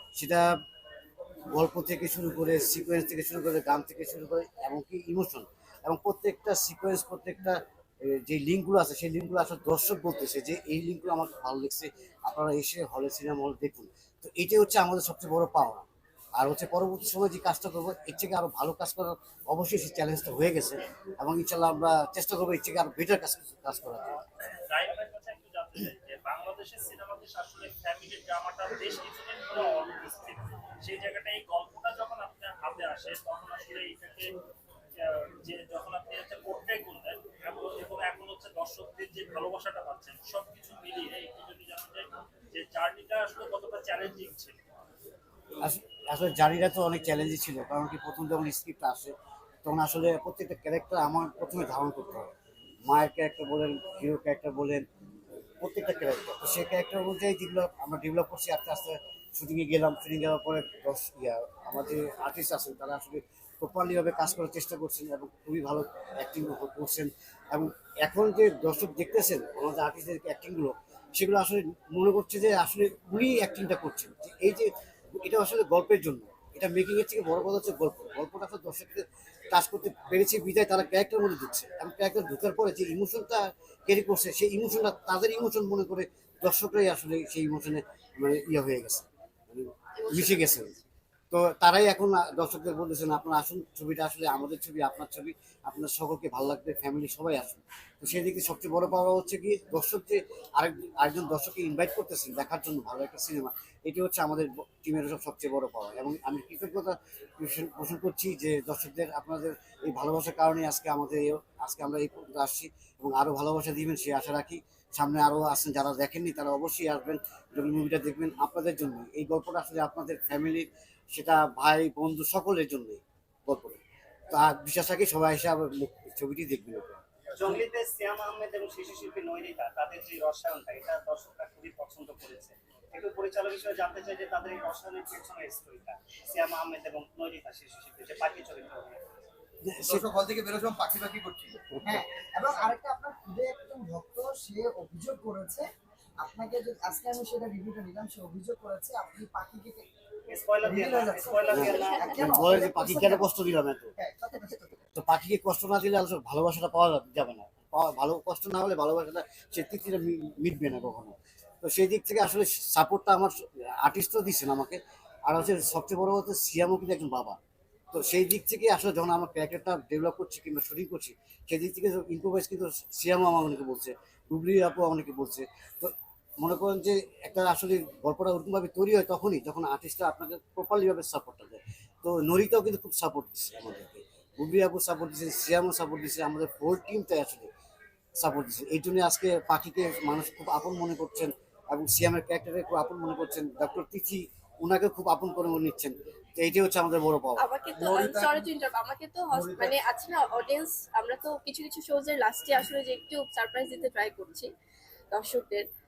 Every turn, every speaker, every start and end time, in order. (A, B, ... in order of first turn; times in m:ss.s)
0:00.2-0:00.5 A
0:01.5-0:15.8 A
0:16.4-0:24.2 A
0:24.1-0:34.3 B
0:35.0-0:44.6 B
0:45.6-0:52.3 A
0:52.9-0:54.8 A
0:55.6-1:30.7 A
1:30.0-1:30.8 C
1:31.3-2:07.0 A
2:07.4-2:19.0 D
2:19.6-2:20.1 A
2:19.9-2:21.7 E
2:21.8-2:25.7 F
2:26.2-2:29.8 F
2:30.3-2:32.2 D
2:30.6-2:33.3 F
2:31.5-2:33.9 A
2:31.6-2:32.2 C
2:34.0-2:34.8 F
2:34.9-2:47.4 A
2:47.9-3:07.5 A
3:08.2-3:17.5 A
3:17.4-3:24.5 C
3:17.8-3:18.4 E
3:19.4-3:19.7 E
3:25.1-3:25.6 C